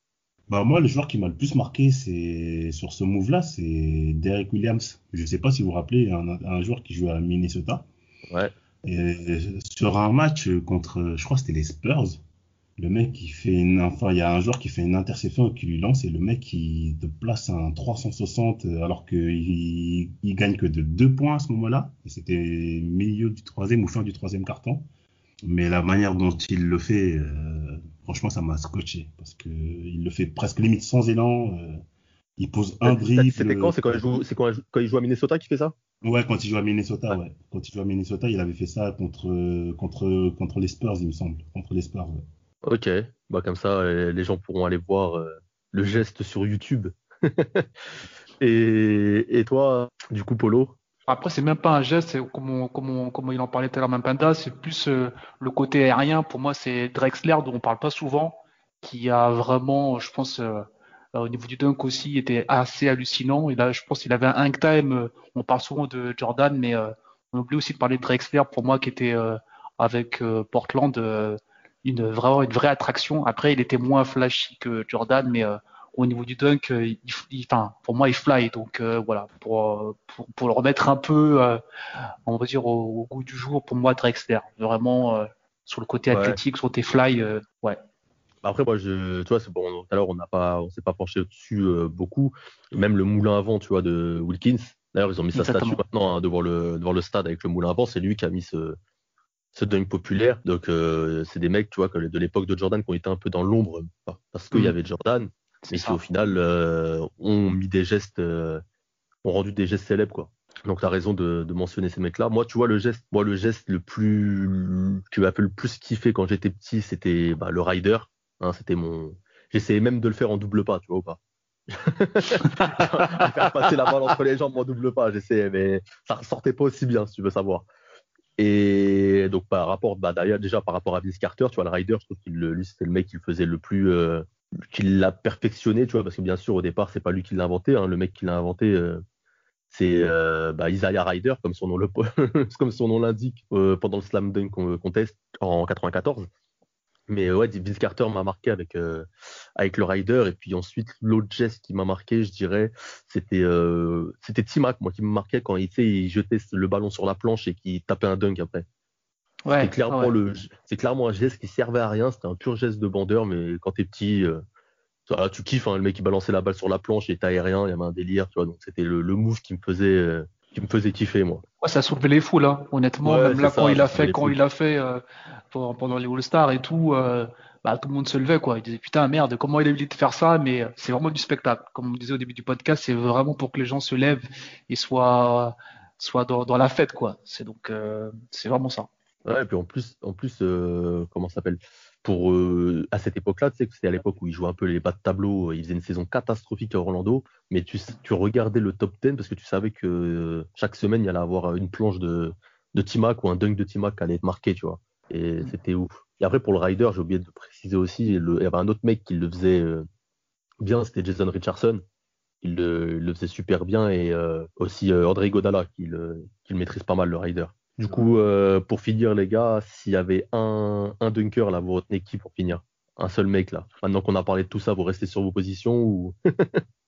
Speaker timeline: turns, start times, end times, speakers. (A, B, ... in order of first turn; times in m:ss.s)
0:00.5-0:07.9 A
0:08.8-0:12.2 A
0:12.8-0:24.9 A
0:25.4-0:31.8 A
0:32.4-0:33.8 A
0:32.8-0:35.7 B
0:36.0-0:42.2 A
0:42.6-0:47.7 B
0:48.4-0:50.8 B
0:51.1-1:21.6 C
1:22.3-1:27.8 C
1:26.1-1:26.4 B
1:28.4-1:38.8 B
1:35.3-1:35.8 C
1:39.5-1:48.6 B
1:45.6-1:46.0 C
1:49.2-2:01.2 B
2:01.7-2:07.7 B
2:08.4-2:19.0 B
2:19.7-2:26.3 B
2:27.1-2:38.6 B
2:39.4-2:40.1 C
2:39.6-2:44.4 B
2:45.1-2:51.4 B
2:51.6-3:08.9 C
2:53.0-2:54.4 B
3:09.2-3:29.8 B
3:30.6-3:31.8 B
3:32.4-3:46.6 B